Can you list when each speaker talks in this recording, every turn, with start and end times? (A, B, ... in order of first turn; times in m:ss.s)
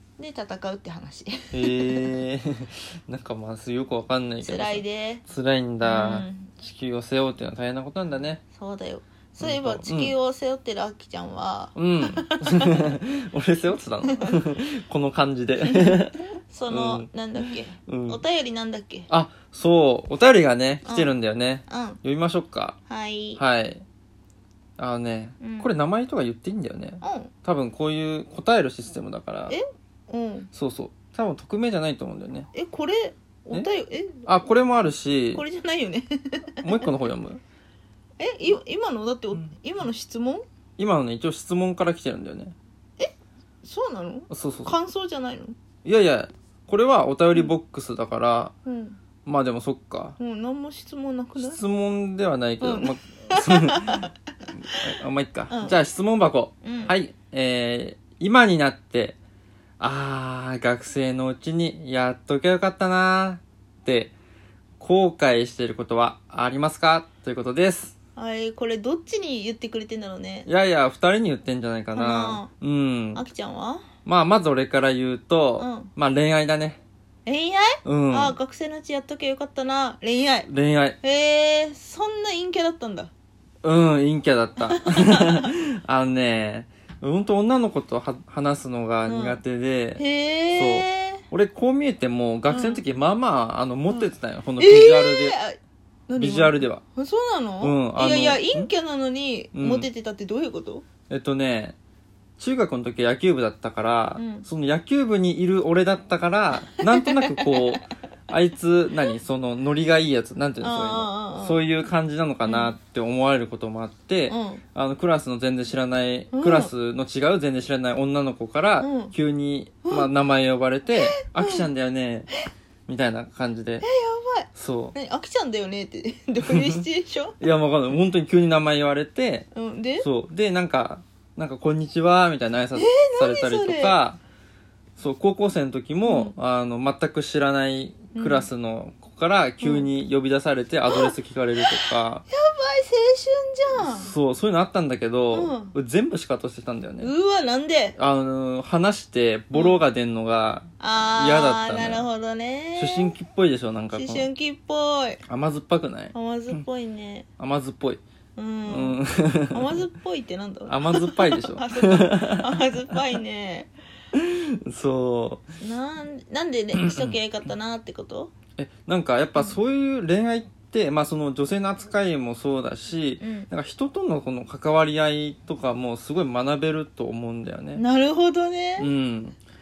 0:00.2-0:02.2 A
0:01.5-0:08.4 B
0:04.4-0:05.2 A
0:05.8-0:06.5 A
0:08.5-0:13.0 A
0:09.4-0:10.1 B
0:11.7-0:18.2 B
0:14.1-0:14.4 A
0:15.6-0:19.1 A
0:19.1-0:22.8 B
0:20.8-0:21.1 A
0:21.7-0:22.0 A
0:22.9-0:23.4 A
0:23.4-0:23.8 B
0:24.8-0:29.6 B
0:25.4-0:25.7 A
0:27.0-0:27.3 A
0:29.5-0:30.5 A
0:30.5-0:32.5 B
0:32.5-0:34.2 A
0:34.2-0:35.4 B
0:35.3-0:36.9 A
0:36.6-0:37.4 B
0:38.2-0:40.4 A
0:40.8-0:42.5 B
0:43.0-0:45.6 A
0:44.3-0:44.7 B
0:45.8-0:48.5 B
0:48.6-0:49.0 A
0:49.2-0:50.2 B
0:50.2-0:51.6 A
0:51.4-0:59.2 B
0:52.6-0:54.1 A
0:55.5-0:55.8 A
0:56.6-0:56.9 A
0:59.8-1:04.1 B
1:04.8-1:07.9 B
1:08.2-1:10.5 A
1:10.4-1:13.2 B
1:11.9-1:12.5 A
1:13.1-1:13.9 A
1:14.0-1:16.8 B
1:15.6-1:15.9 A
1:17.2-1:20.5 A
1:17.8-1:18.4 B
1:20.5-1:21.0 B
1:21.0-1:23.1 A
1:23.6-1:30.0 B
1:24.7-1:25.5 A
1:29.1-1:29.4 A
1:30.0-1:31.2 A
1:30.5-1:35.4 B
1:32.5-1:32.8 A
1:34.6-1:40.8 A
1:36.2-1:36.8 B
1:37.6-1:38.7 B
1:39.5-1:39.9 B
1:41.1-1:41.8 B
1:42.4-2:02.3 B
1:44.2-1:44.5 A
1:46.9-1:47.6 A
1:50.6-1:51.6 A
1:52.4-1:52.7 A
1:54.3-1:54.6 A
1:56.3-1:56.7 A
1:58.8-1:59.1 A
2:00.9-2:01.7 A
2:02.9-2:03.8 B
2:03.8-2:07.4 A
2:04.5-2:04.9 B
2:06.4-2:06.8 B
2:07.4-2:09.5 B
2:09.5-2:10.1 A
2:10.0-2:14.2 B
2:12.7-2:14.0 A
2:15.0-2:22.2 B
2:16.0-2:16.3 A
2:18.1-2:18.5 A
2:19.6-2:19.9 A
2:20.9-2:24.1 A
2:23.8-2:27.1 B
2:25.3-2:25.7 A
2:27.0-2:28.0 A
2:28.0-2:32.1 B
2:29.5-2:29.8 A
2:30.8-2:33.1 A
2:32.8-2:34.3 B
2:33.9-2:35.2 A
2:35.3-2:36.1 B
2:36.1-2:37.3 A
2:37.4-2:38.0 B
2:38.4-2:39.0 A
2:38.7-2:39.8 B
2:39.5-2:43.7 A
2:40.7-2:42.6 B
2:44.1-2:45.4 B
2:45.6-2:48.3 A
2:46.8-2:47.2 B
2:48.6-2:57.8 B
2:53.2-2:53.5 A
2:57.7-2:58.9 A
2:58.8-2:59.4 B